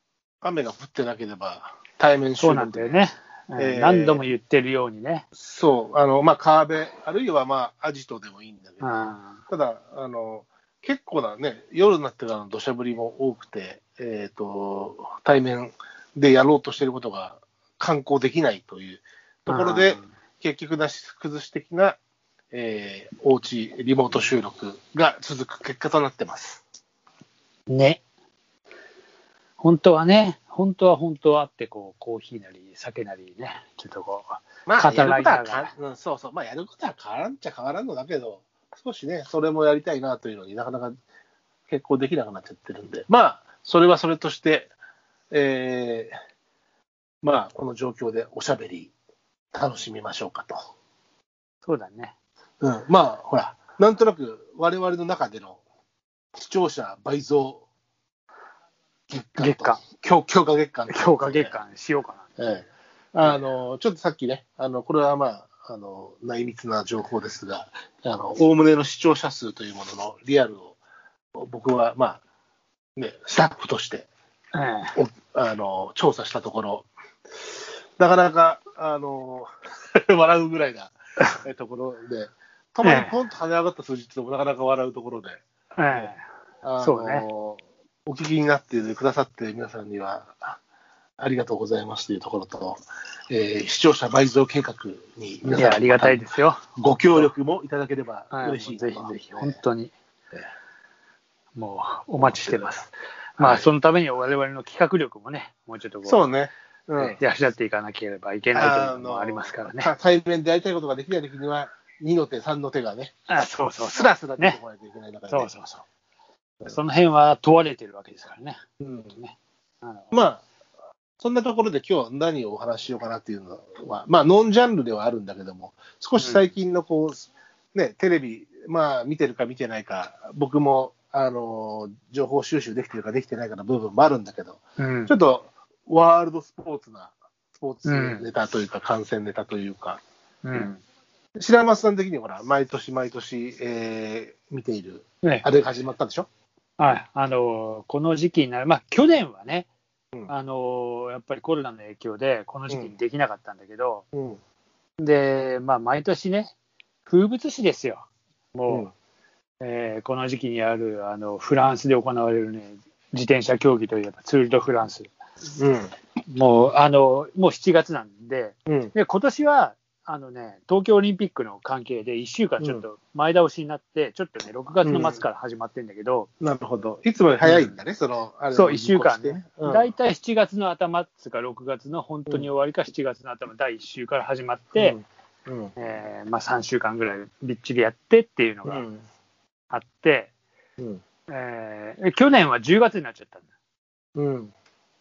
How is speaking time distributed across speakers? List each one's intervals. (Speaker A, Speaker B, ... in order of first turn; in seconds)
Speaker A: 0.4-2.9, 3.5-4.2, 5.3-8.9, 9.5-22.0, 22.5-26.6, 34.7-41.0, 41.7-44.7, 45.3-46.1, 47.2-48.9, 49.5-50.6, 52.6-55.6, 56.3-57.6, 59.1-61.5, 62.4-70.8, 71.3-72.2, 73.0-74.1, 75.0-76.9, 78.0-85.4, 86.6-90.6, 91.2-96.2, 96.8-99.5, 102.2-102.7, 103.4-103.7, 106.0-107.2, 108.5-113.1, 113.8-115.5, 118.8-119.1, 120.1-120.4, 121.2-140.0, 141.3-146.3, 154.1-154.4, 165.6-165.9, 168.7-168.9, 174.8-175.2, 176.4-179.9, 184.7-185.7, 188.7-189.0, 194.2-194.5
Speaker B: 2.4-5.2, 8.8-9.4, 19.5-20.1, 27.7-28.0, 29.6-35.7, 51.6-52.1, 59.4-59.8, 60.9-62.2, 74.5-74.9, 82.8-83.1, 85.8-86.2, 86.8-87.2, 95.4-96.6, 98.3-99.9, 101.5-106.3, 107.0-109.9, 113.3-114.6, 115.3-115.8, 116.6-120.2, 126.2-126.5, 134.8-135.1, 137.8-138.3, 140.4-140.8, 146.8-149.7, 150.3-154.0, 155.0-156.5, 157.1-158.9, 159.6-165.1, 166.3-176.3, 177.4-177.8, 178.5-185.0, 185.8-188.8, 189.7-190.3, 191.3-193.4